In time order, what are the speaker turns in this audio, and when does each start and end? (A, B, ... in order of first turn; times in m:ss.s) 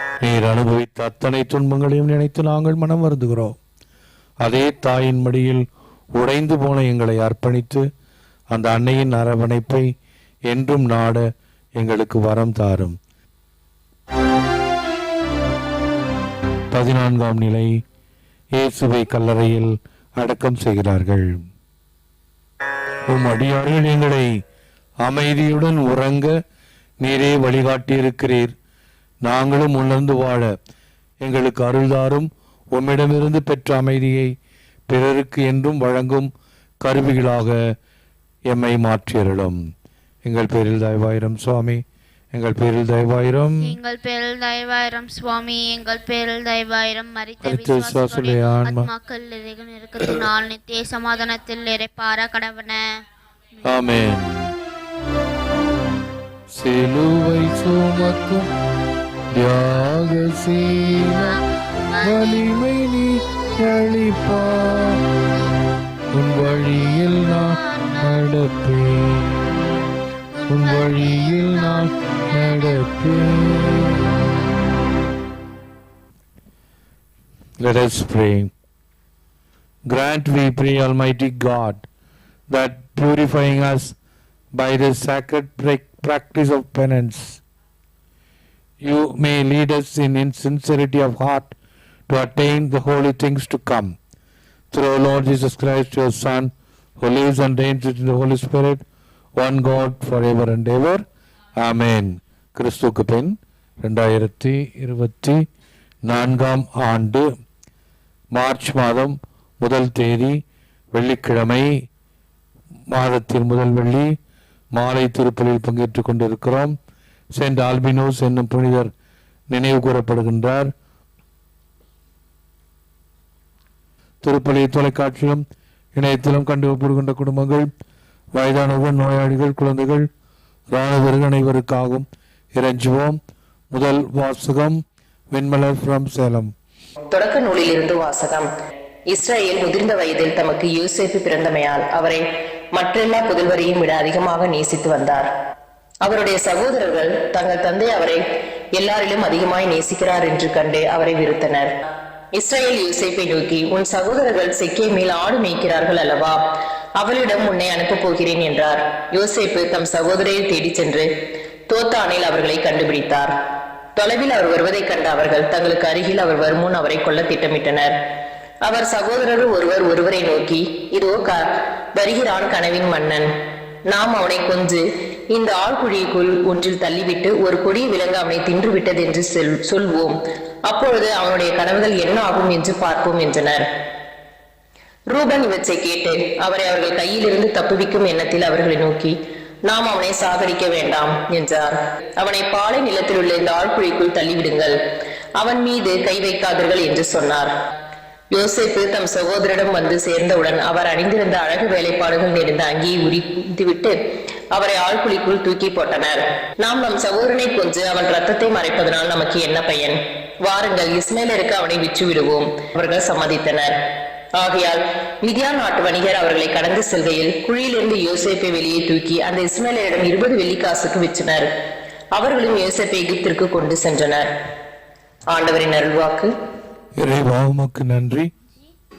0:00.2-0:03.6 A
0:04.4-0:05.6 A
0:06.2-0:07.9 A
0:08.5-0:09.9 A
0:10.5-0:11.2 A
0:11.8-0:13.0 A
0:16.7-0:17.8 A
0:18.6-0:21.4 A
0:23.1-0:24.3 A
0:25.0-0:26.4 A
0:27.0-0:28.5 A
0:29.2-0:30.5 A
0:31.2-0:34.3 A
0:34.9-0:36.3 A
0:36.8-0:37.6 A
0:38.5-0:39.6 A
0:40.2-0:41.8 A
0:42.3-0:43.8 A
0:43.6-0:53.0 B
0:47.4-0:48.9 A
0:53.7-0:54.5 A
0:56.6-0:58.5 A
0:59.3-1:01.4 A
1:01.1-1:01.4 B
1:01.9-1:02.4 B
1:02.0-1:05.0 A
1:06.1-1:09.4 A
1:07.2-1:08.3 B
1:10.5-1:14.0 A
1:10.6-1:12.8 B
1:17.6-1:18.5 A
1:19.9-1:21.8 A
1:22.5-1:24.0 A
1:24.6-1:27.4 A
1:28.8-1:31.5 A
1:32.1-1:33.9 A
1:34.7-1:38.8 A
1:39.4-1:41.0 A
1:41.6-1:45.4 A
1:46.1-1:47.3 A
1:48.3-1:50.4 A
1:50.9-1:51.7 A
1:52.9-1:54.1 A
1:54.8-1:56.8 A
1:57.4-1:58.9 A
1:59.5-2:00.7 A
2:04.2-2:05.4 A
2:06.0-2:07.7 A
2:08.4-2:10.1 A
2:10.7-2:13.2 A
2:13.7-2:16.5 A
2:17.1-2:18.5 C
2:19.1-2:25.3 C
2:26.0-2:28.2 C
2:28.8-2:31.7 C
2:32.3-2:36.4 C
2:37.0-2:41.1 C
2:41.7-2:43.3 C
2:44.0-2:48.0 C
2:48.6-2:51.4 C
2:52.0-2:53.3 C
2:53.9-3:03.6 C
3:05.1-3:14.8 C
3:15.4-3:17.5 C
3:18.3-3:24.0 C
3:24.5-3:33.8 C
3:34.4-3:41.5 C
3:42.2-3:44.3 C
3:45.3-3:46.3 C
3:47.0-3:48.3 A